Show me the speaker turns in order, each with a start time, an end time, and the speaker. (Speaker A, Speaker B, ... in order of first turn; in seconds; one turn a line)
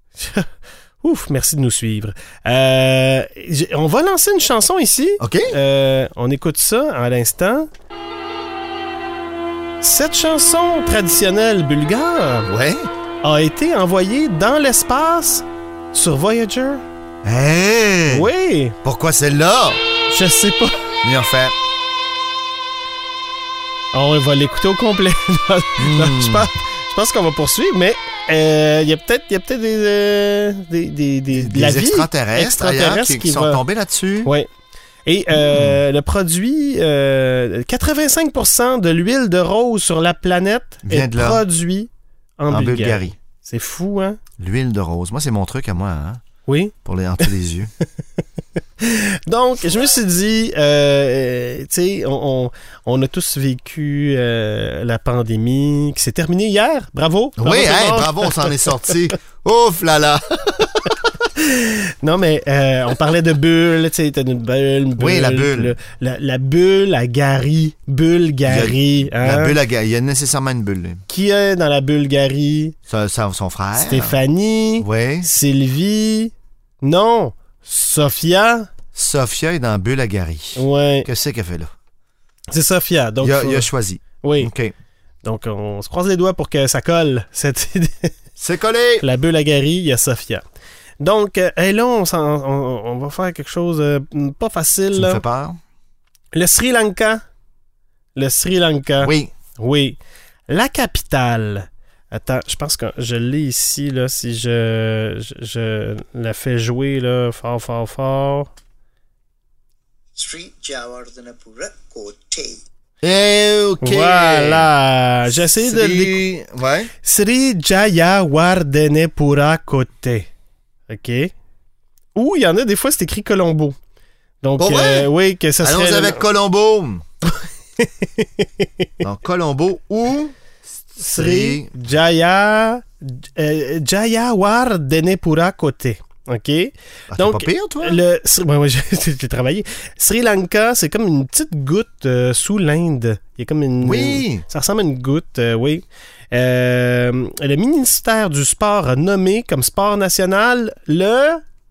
Speaker A: 0.2-0.5
Speaker A: 1.0-7.7
Speaker B: 5.2-5.5
Speaker A: 9.8-12.5
Speaker B: 12.5-12.9
Speaker A: 13.2-16.8
Speaker B: 17.2-18.3
Speaker A: 18.1-18.8
Speaker B: 18.8-19.8
Speaker A: 20.1-20.8
Speaker B: 21.0-21.6
Speaker A: 23.9-33.6
Speaker B: 25.8-26.5
Speaker B: 31.3-34.3
Speaker A: 35.0-44.2
Speaker B: 35.4-35.8
Speaker B: 40.8-41.4
Speaker B: 42.5-43.1
Speaker B: 44.4-46.2
Speaker A: 46.5-47.3
Speaker B: 46.9-47.7
Speaker A: 48.8-58.6
Speaker B: 57.4-61.0
Speaker A: 61.4-69.6
Speaker B: 65.0-65.8
Speaker B: 68.5-71.0
Speaker A: 71.1-72.8
Speaker B: 72.9-74.2
Speaker A: 73.8-78.7
Speaker B: 74.8-75.3
Speaker B: 78.9-81.7
Speaker A: 80.6-81.1
Speaker A: 82.5-83.7
Speaker B: 83.2-84.7
Speaker A: 84.2-84.5
Speaker A: 85.2-88.1
Speaker B: 88.4-89.1
Speaker A: 89.0-90.4
Speaker A: 91.0-95.2
Speaker B: 94.9-95.6
Speaker A: 96.3-97.2
Speaker A: 98.2-108.5
Speaker B: 99.0-99.3
Speaker C: 110.2-112.6
Speaker B: 113.0-114.7
Speaker A: 113.8-116.3
Speaker B: 115.3-116.9
Speaker A: 117.0-120.3
Speaker A: 120.9-121.3
Speaker A: 122.2-123.8
Speaker A: 124.4-126.2
Speaker B: 124.6-125.1
Speaker B: 125.6-127.0
Speaker A: 127.8-128.9
Speaker B: 129.0-130.3
Speaker A: 131.0-151.4
Speaker B: 131.0-131.7
Speaker B: 137.1-138.0
Speaker B: 143.8-144.4